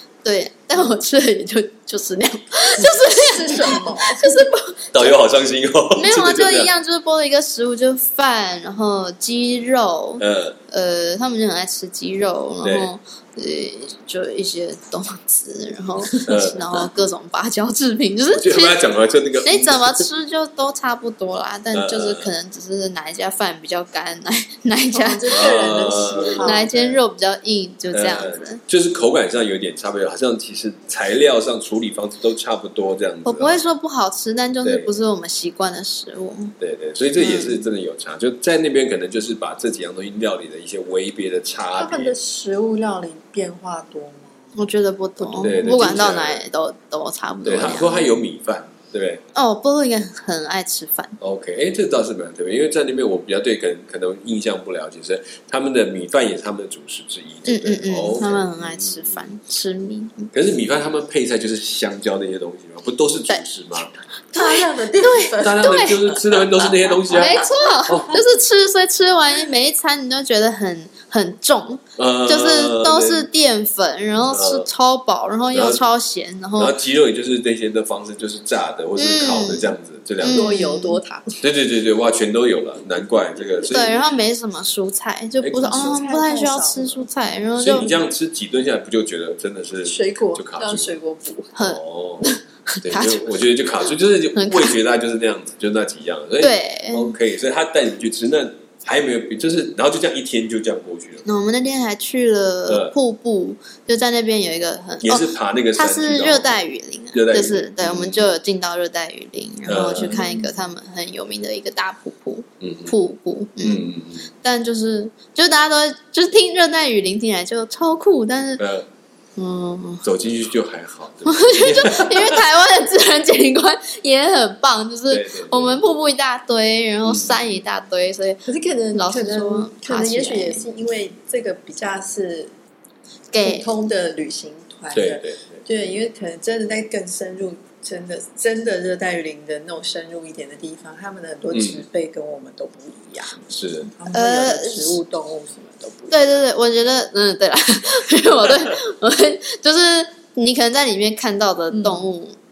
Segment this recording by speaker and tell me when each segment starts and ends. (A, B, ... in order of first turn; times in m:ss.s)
0:00.2-0:05.1 A
0:02.8-0:04.4 B
0:04.9-0:06.7 C
0:05.9-0:18.8 A
0:10.2-0:10.6 C
0:12.6-0:12.9 C
0:16.2-0:16.9 C
0:18.3-0:20.0 C
0:19.4-0:25.5 A
0:21.7-0:22.3 C
0:24.9-0:27.0 B
0:25.3-0:26.6 C
0:26.0-0:28.6 A
0:27.9-0:33.6 C
0:33.2-0:36.5 A
0:34.6-0:34.9 C
0:36.6-0:42.1 C
0:37.2-0:37.6 A
0:41.8-0:44.4 B
0:44.5-0:48.2 A
0:45.4-0:46.4 C
0:47.4-0:49.2 C
0:49.3-0:51.2 A
0:51.2-0:59.2 C
0:57.4-1:00.3 A
1:00.3-1:03.9 C
1:04.3-1:08.0 B
1:04.3-1:06.0 A
1:05.4-1:08.2 C
1:07.1-1:16.8 A
1:12.0-1:13.3 C
1:14.2-1:14.7 C
1:15.5-1:15.8 C
1:16.6-1:20.5 C
1:19.0-1:21.0 A
1:20.2-1:21.4 B
1:21.4-1:24.0 C
1:23.7-1:27.9 A
1:25.4-1:26.0 C
1:25.7-1:27.1 B
1:27.6-1:31.0 C
1:29.8-1:31.5 B
1:31.6-1:33.3 A
1:31.6-1:32.3 C
1:32.8-1:41.2 C
1:34.3-1:34.8 A
1:36.4-1:37.1 A
1:41.2-1:53.9 A
1:42.7-1:42.9 C
1:45.0-1:46.6 C
1:47.1-1:48.3 C
1:49.6-1:50.2 C
1:50.0-1:50.6 B
1:52.6-1:52.9 C
1:53.6-1:54.3 C
1:54.4-1:58.6 A
1:58.6-1:58.9 C
1:59.4-2:00.0 A
2:00.0-2:02.4 C
2:01.2-2:08.4 A
2:05.1-2:05.8 C
2:07.0-2:07.4 C
2:08.4-2:12.5 B
2:08.9-2:10.6 A
2:13.3-2:13.7 A
2:13.4-2:26.4 B
2:14.9-2:15.6 C
2:21.5-2:21.8 C
2:23.5-2:23.9 C
2:24.1-2:25.0 A
2:26.1-2:32.4 A
2:31.7-2:32.1 B